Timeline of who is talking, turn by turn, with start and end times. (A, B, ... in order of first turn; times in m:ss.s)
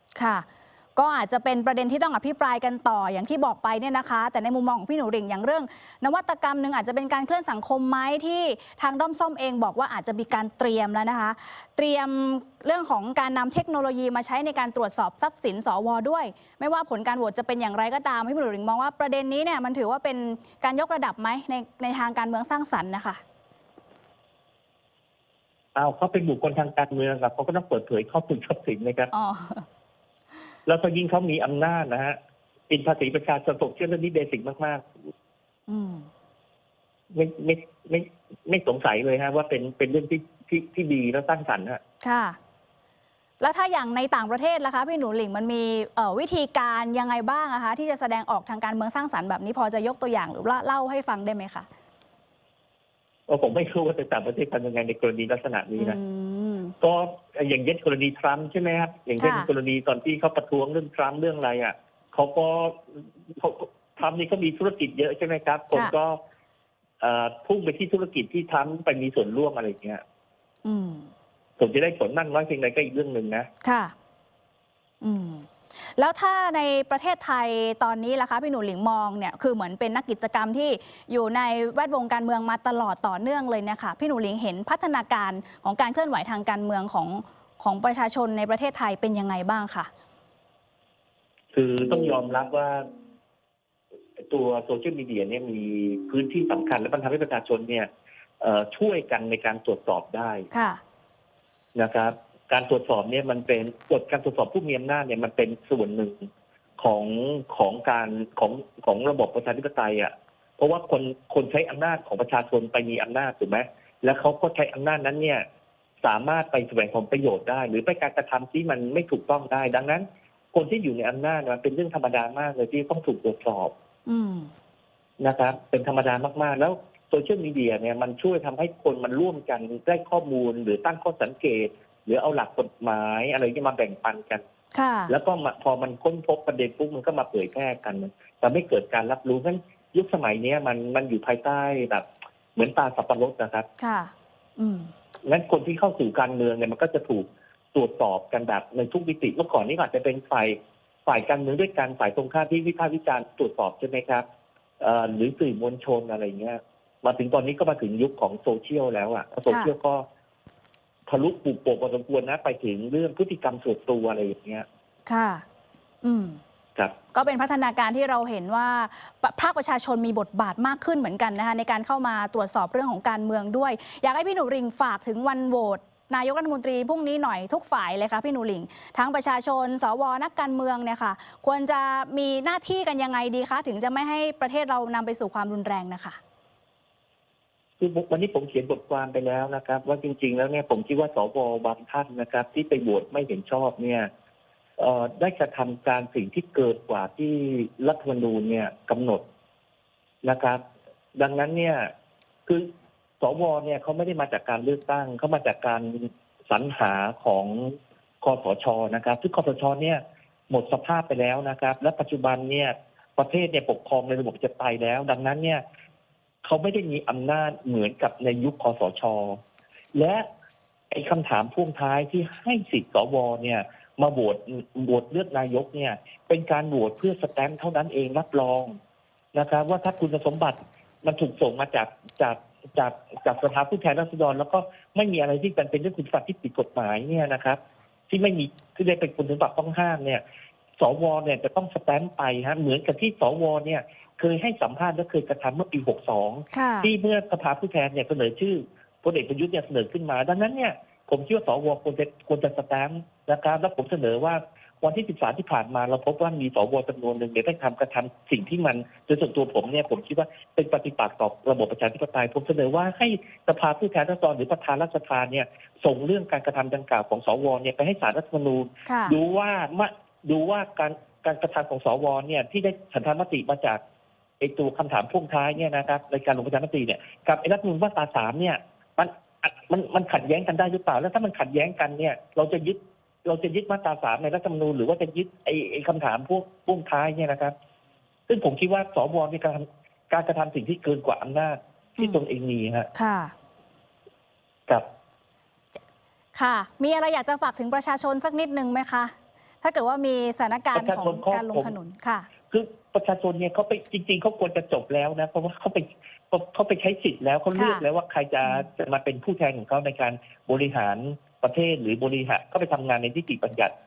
0:00.2-0:23.2 A
0:25.8-0:29.1 B
0:29.1-0:29.7 A
0:30.7-0:32.2 B
0:32.7-0:34.9 B
0:35.7-0:36.1 A
0:37.1-0:41.8 B
0:42.0-0:42.4 A
0:43.4-0:51.7 A
0:53.3-0:56.0 B
0:55.8-0:56.7 A
0:56.8-1:06.2 B
0:59.2-0:59.5 A
1:07.0-1:10.0 B
1:10.6-1:11.1 A
1:11.6-1:13.5 B
1:13.6-1:13.9 A
1:15.0-1:29.9 A
1:31.5-1:32.9 B
1:34.2-1:37.9 B
1:38.4-1:40.5 B
1:40.5-1:40.8 A
1:41.8-1:46.3 B
1:46.8-1:55.4 B
1:56.0-2:03.7 B
2:04.1-2:04.5 A
2:05.2-2:14.4 B
2:14.7-2:15.1 A
2:15.1-2:22.0 B
2:22.6-2:23.7 B
2:23.8-2:24.9 A
2:25.2-2:34.2 B
2:34.8-2:40.0 B
2:41.1-2:44.7 B
2:45.1-2:45.4 A
2:46.0-2:46.4 A
2:47.1-3:06.2 A
3:07.8-3:14.1 B
3:14.8-3:19.2 B
3:20.2-3:20.6 B
3:21.2-3:21.9 B
3:22.5-3:35.6 B
3:36.4-3:39.4 B
3:39.9-3:40.2 B
3:40.9-3:48.8 B
3:49.3-3:57.6 B
3:58.1-4:00.2 B
4:00.8-4:33.8 B
4:06.5-4:06.9 A
4:28.9-4:29.2 A
4:34.4-4:47.5 B
4:48.3-4:52.9 B
4:52.9-4:53.3 A
4:56.4-5:02.3 A
5:00.8-5:01.8 B
5:02.5-5:13.7 B
5:07.6-5:07.8 A